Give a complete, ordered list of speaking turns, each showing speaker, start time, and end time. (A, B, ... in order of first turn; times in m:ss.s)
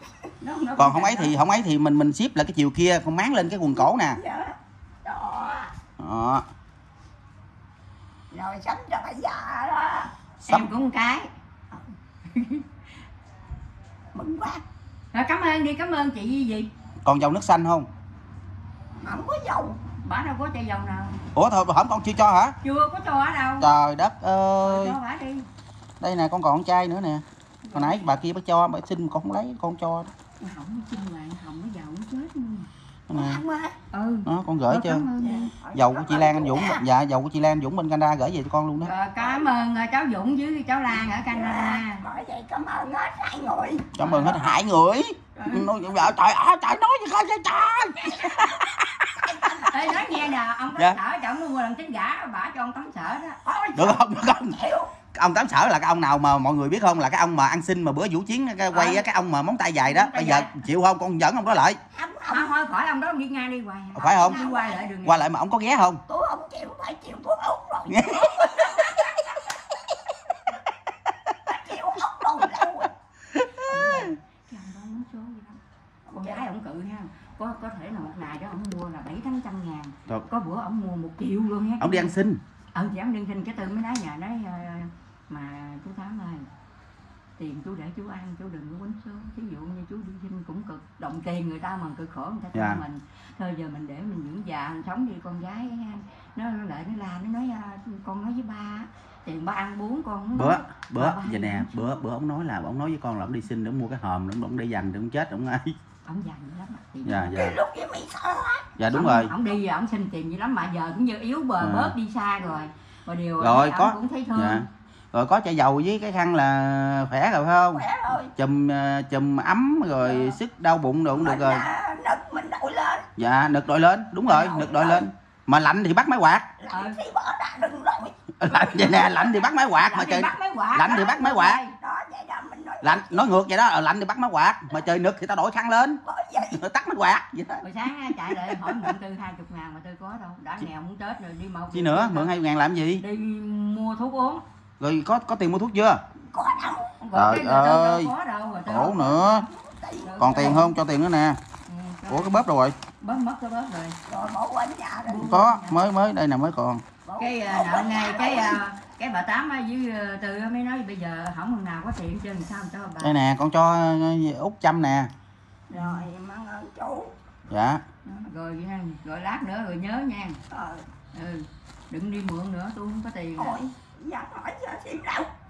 0:00.4-0:01.4 A
0:00.8-0:04.2 B
0:04.2-0:05.7 C
0:06.0-0:06.5 B
0:08.3-0:10.1 C
0:10.4-0:10.7 B
0:10.5-0:11.3 A
0:12.3-0:12.6 A
0:14.1-0:14.6 C
0:15.1-0:16.7 A
0:17.0-0:17.9 B
0:19.0-0:19.8 C
0:20.0-0:21.2 A
0:21.4-0:22.6 B
0:22.6-0:23.7 A
0:23.6-0:25.0 B
0:24.6-0:25.5 A
0:26.0-0:30.1 B
0:27.7-0:28.0 A
0:30.4-0:32.7 A
0:33.1-0:33.4 B
0:33.1-0:33.8 C
0:33.9-0:35.5 A
0:34.3-0:35.1 B
0:35.2-0:36.8 C
0:35.7-0:38.9 B
0:38.8-0:42.0 A
0:39.2-0:39.5 C
0:41.2-0:43.9 C
0:44.0-0:49.4 B
0:44.0-0:44.4 A
0:45.4-0:45.7 A
0:49.2-0:50.4 C
0:49.6-0:53.4 A
0:53.4-0:54.9 C
0:53.7-0:54.6 B
0:55.1-1:01.8 B
0:58.7-0:59.1 A
0:59.8-1:00.6 A
1:01.9-1:02.5 C
1:02.3-1:05.3 A
1:04.0-1:04.4 B
1:04.0-1:04.9 C
1:05.0-1:06.0 B
1:06.1-1:09.6 C
1:07.9-1:08.9 B
1:11.5-1:12.9 C
1:13.6-1:15.6 A
1:16.1-1:16.4 C
1:16.1-1:22.2 A
1:21.8-1:22.4 B
1:22.7-1:26.5 A
1:27.4-1:42.0 A
1:32.5-1:32.8 B
1:40.4-1:45.8 B
1:46.1-1:47.4 A
1:47.0-1:47.6 B
1:47.3-1:48.8 C
1:48.8-1:49.3 B
1:48.9-1:54.7 A
1:51.6-1:52.0 B
1:53.4-2:01.7 B
1:57.7-1:58.3 C
2:00.0-2:00.4 A
2:01.1-2:03.1 C
2:03.2-2:06.5 B
2:04.3-2:04.8 A
2:04.5-2:05.0 C
2:06.6-2:08.3 C
2:06.7-2:07.0 A
2:08.4-2:11.6 B
2:08.5-2:11.7 A
2:11.8-2:13.3 C
2:12.8-2:17.6 B
2:16.0-2:16.6 C
2:17.6-2:22.4 A
2:18.2-2:18.9 B
2:21.7-2:23.0 B
2:23.0-2:24.4 A
2:24.8-2:26.0 B
2:26.3-2:27.0 C
2:27.0-2:29.4 A
2:27.1-2:28.1 B
2:28.7-2:29.5 B
2:29.3-2:30.3 C
2:30.0-2:30.8 A
2:30.2-2:31.4 B
2:31.7-2:32.4 A
2:32.1-2:32.8 B
2:33.0-2:34.0 A
2:34.1-2:35.3 C
2:35.1-2:35.8 A
2:35.1-2:36.8 B
2:37.1-2:38.6 C
2:37.2-2:43.2 A
2:43.0-2:45.1 B
2:45.7-2:46.1 A
2:45.7-2:47.2 C
2:47.5-2:47.8 B
2:48.0-2:50.4 A
2:50.5-2:50.9 C
2:51.1-2:53.6 A
2:53.4-2:55.3 C